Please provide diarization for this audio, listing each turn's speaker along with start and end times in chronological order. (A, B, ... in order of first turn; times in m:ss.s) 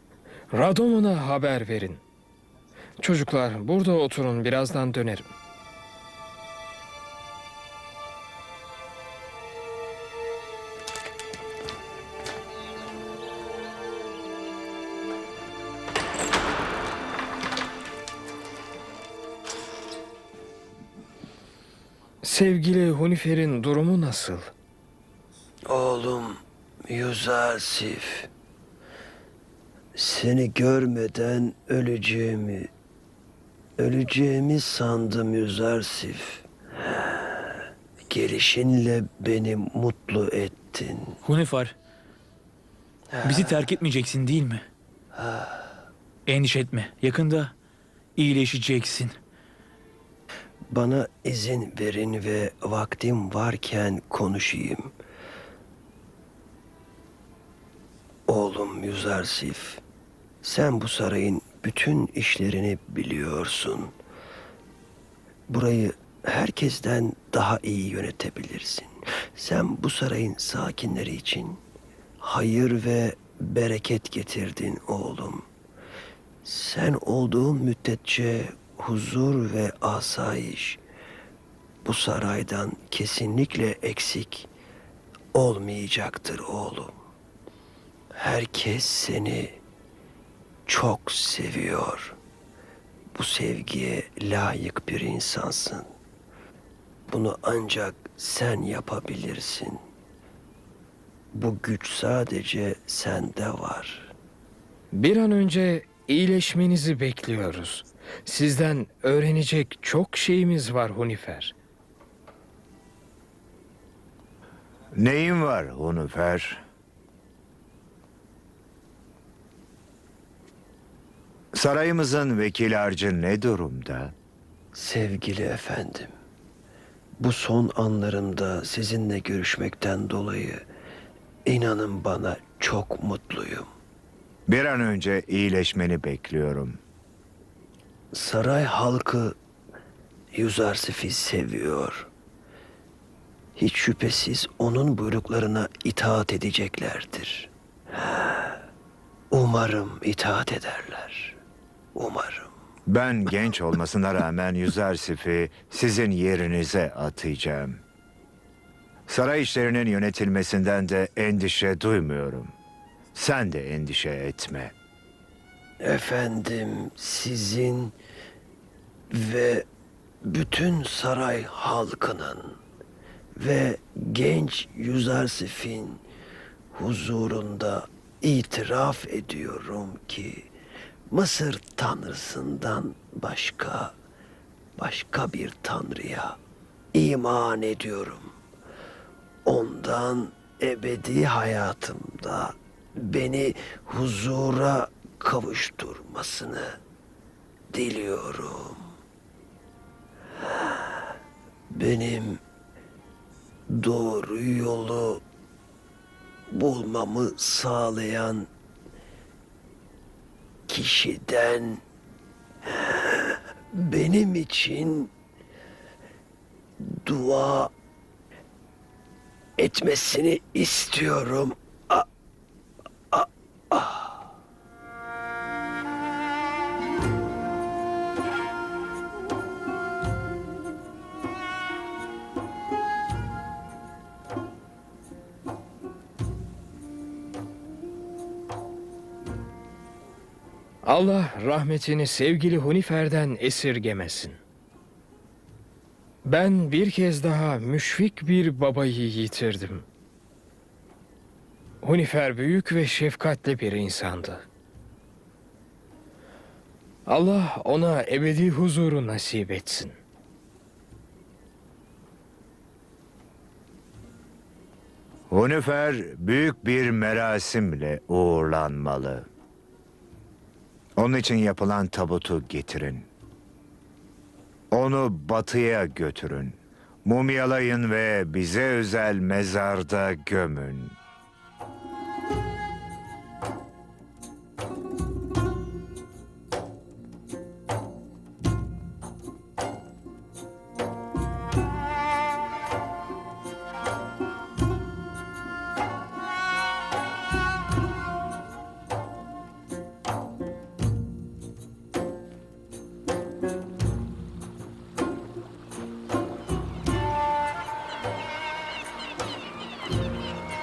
0:00.5-0:02.0 A
0:03.0-0:05.3 A
0:22.2-0:24.5 A
0:25.7-0:28.3 B
0:30.0-0:32.7 B
0:33.8-0:36.5 B
0:38.1-0:41.2 B
0:41.2-0:41.7 C
0:43.1-0:43.6 B
0:43.2-0:44.6 C
0:45.2-0:45.6 B
0:46.3-0:47.5 C
0:48.2-0:49.2 C
0:50.7-0:54.9 B
0:58.3-0:59.8 B
1:00.4-1:04.0 B
1:05.5-1:11.6 B
1:12.2-1:15.5 B
1:16.4-1:20.8 B
1:21.8-1:24.5 B
1:25.3-1:27.0 B
1:28.1-1:29.6 B
1:30.7-1:32.2 B
1:33.1-1:35.9 B
1:37.1-1:39.8 B
1:41.3-1:44.1 B
1:44.9-1:51.6 A
1:54.9-1:56.6 D
2:01.5-2:04.2 D
2:04.7-2:06.1 B
2:07.2-2:10.7 B
2:11.5-2:13.7 B
2:14.5-2:16.8 D
2:18.1-2:19.4 B
2:20.3-2:22.1 B
2:23.6-2:27.5 B
2:29.3-2:31.4 B
2:31.9-2:32.5 B
2:32.9-2:37.8 D
2:39.1-2:42.6 D
2:43.1-2:44.7 D
2:45.8-2:48.0 B
2:49.1-2:49.7 B
2:50.2-2:52.6 B
2:53.4-2:56.0 B
2:56.7-3:00.5 B
3:01.1-3:03.9 B
3:04.8-3:06.4 B
3:06.9-3:08.4 B
3:09.5-3:16.8 B
3:17.7-3:18.9 B
3:21.7-3:22.4 B
3:23.7-3:25.2 B
3:26.5-3:28.5 B
3:30.7-3:31.8 B
3:33.7-3:35.1 B
3:36.8-3:37.7 B
3:39.6-3:42.1 B
3:43.1-3:44.2 B
4:00.8-4:04.4 A
4:06.2-4:09.9 A
4:11.8-4:14.5 A
4:17.1-4:20.0 A
4:25.3-4:29.3 D
4:31.0-4:33.1 D
4:34.7-4:41.0 D